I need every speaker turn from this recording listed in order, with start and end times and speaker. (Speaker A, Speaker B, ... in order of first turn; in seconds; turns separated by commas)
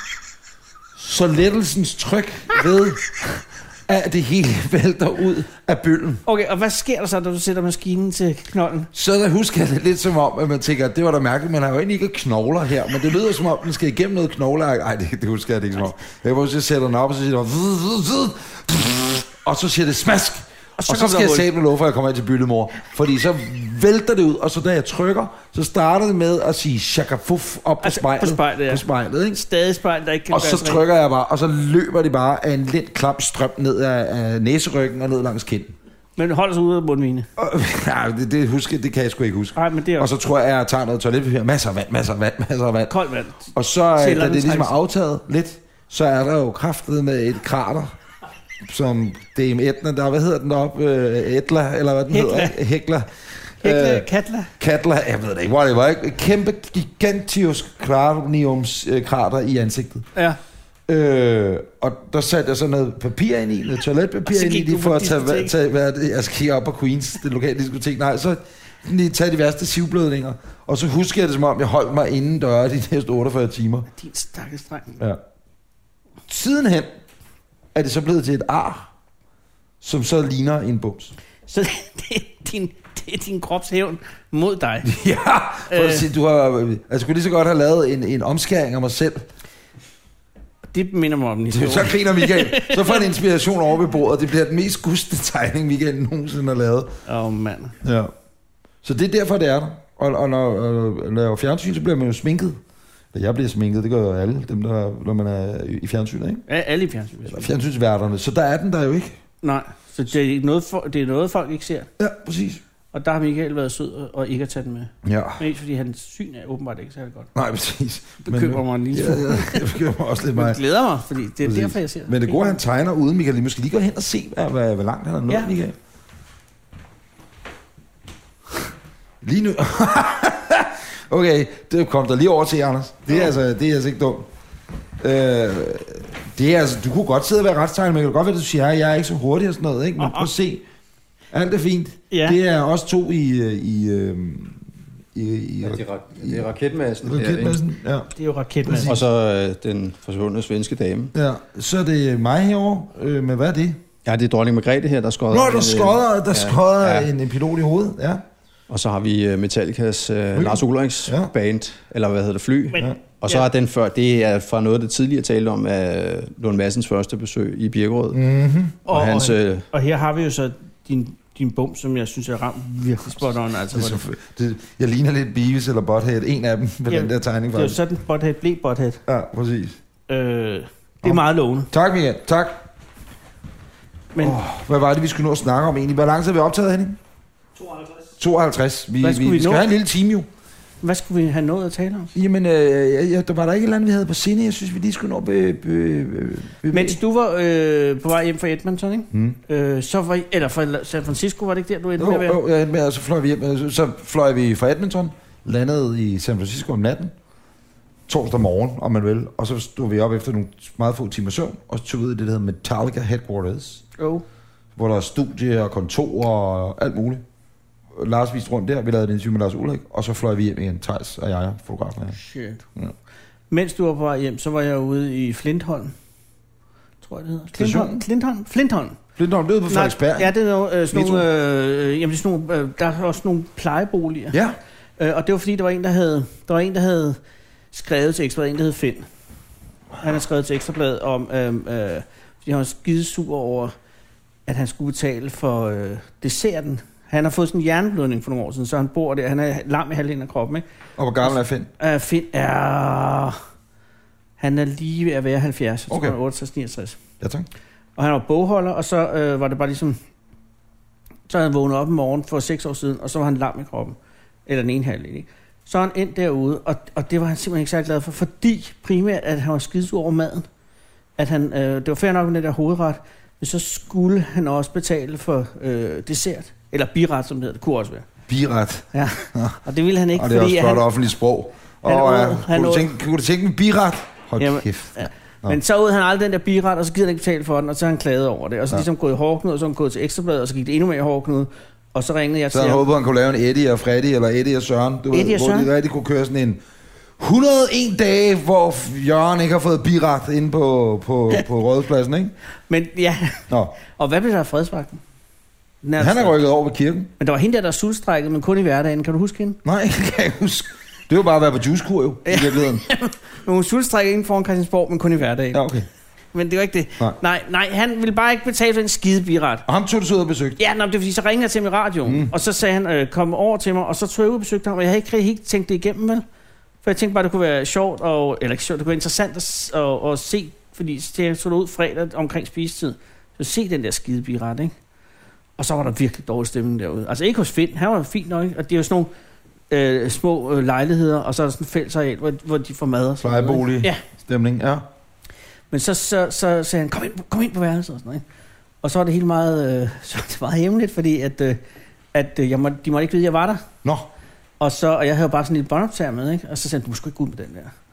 Speaker A: 0.9-6.2, Speaker B: 6.2-8.9, Speaker A: 8.9-29.4, Speaker B: 20.8-21.5, Speaker B: 27.8-30.8, Speaker A: 30.3-35.7, Speaker B: 36.2-37.3, Speaker A: 37.4-42.9, Speaker B: 39.5-40.1, Speaker B: 42.9-44.8, Speaker A: 43.5-47.9, Speaker A: 48.6-54.0, Speaker B: 52.1-52.6, Speaker B: 53.6-54.5, Speaker A: 54.6-60.1, Speaker A: 60.9-73.9, Speaker B: 64.2-65.5, Speaker B: 73.9-75.0, Speaker A: 76.3-76.9, Speaker A: 77.7-78.9, Speaker A: 79.8-81.1, Speaker B: 81.5-84.9, Speaker A: 84.8-89.3, Speaker B: 85.7-86.0, Speaker B: 90.7-93.0, Speaker A: 91.5-97.0, Speaker B: 97.0-97.8, Speaker A: 97.8-98.1, Speaker A: 98.8-102.6, Speaker A: 103.1-106.4, Speaker B: 106.5-107.5, Speaker A: 107.2-109.2, Speaker B: 109.4-111.9, Speaker A: 112.0-112.6, Speaker B: 112.9-117.3, Speaker A: 115.0-115.4, Speaker A: 117.3-120.6, Speaker B: 118.2-119.8, Speaker B: 120.3-122.6, Speaker A: 121.4-125.8, Speaker A: 129.2-134.3, Speaker A: 135.0-140.6, Speaker B: 140.0-140.3, Speaker A: 141.3-144.6, Speaker B: 142.1-142.4, Speaker A: 145.1-146.4, Speaker C: 145.6-147.6, Speaker A: 147.0-148.1, Speaker B: 148.1-149.0, Speaker A: 148.7-148.9, Speaker C: 148.8-151.1, Speaker A: 151.1-153.8, Speaker C: 154.0-157.1, Speaker A: 155.3-158.2, Speaker C: 158.7-168.2, Speaker A: 160.3-161.3, Speaker B: 162.7-163.4, Speaker A: 168.1-168.8, Speaker B: 168.8-174.0, Speaker C: 168.9-169.6, Speaker A: 173.7-177.8, Speaker B: 176.9-179.0, Speaker A: 179.1-179.8, Speaker B: 180.1-181.7, Speaker A: 181.0-182.6, Speaker B: 184.1-184.4, Speaker A: 184.2-187.0, Speaker A: 188.2-190.3, Speaker B: 189.0-189.7, Speaker B: 190.8-192.1, Speaker A: 192.1-197.0, Speaker B: 196.7-202.4, Speaker A: 199.1-199.4, Speaker A: 202.0-207.1, Speaker A: 208.1-213.8, Speaker B: 214.0-214.2, Speaker A: 214.8-217.2, Speaker A: 217.9-222.2, Speaker B: 222.2-222.6, Speaker B: 223.5-225.9, Speaker B: 227.0-229.0, Speaker A: 227.5-228.0, Speaker A: 229.2-230.3, Speaker B: 229.7-234.3, Speaker A: 230.9-231.2, Speaker A: 234.3-234.6, Speaker B: 235.0-237.2, Speaker B: 237.7-239.1, Speaker B: 240.0-243.7, Speaker B: 244.4-250.6, Speaker A: 251.0-251.7, Speaker B: 251.2-253.4, Speaker B: 254.4-257.0, Speaker A: 255.9-256.1, Speaker A: 257.2-257.5, Speaker B: 258.0-260.0, Speaker B: 261.3-270.5, Speaker B: 271.2-278.1, Speaker A: 278.3-279.6, Speaker B: 278.9-280.9, Speaker A: 280.1-285.6, Speaker B: 281.8-282.9, Speaker B: 284.4-292.8, Speaker A: 292.5-296.6, Speaker B: 295.1-295.7, Speaker A: 297.2-302.3, Speaker B: 302.7-305.0, Speaker A: 303.5-303.7, Speaker B: 305.8-306.4, Speaker A: 306.0-307.1, Speaker B: 307.2-309.6, Speaker A: 309.6-312.8, Speaker B: 312.2-315.6, Speaker A: 315.5-315.9, Speaker B: 316.3-319.6, Speaker A: 319.6-320.6, Speaker B: 320.6-326.2, Speaker A: 322.0-322.3, Speaker B: 326.8-334.7, Speaker B: 335.6-339.1, Speaker B: 339.7-344.0, Speaker A: 343.2-344.9, Speaker B: 345.7-348.2, Speaker B: 348.8-351.6, Speaker B: 352.1-353.6, Speaker B: 354.6-357.7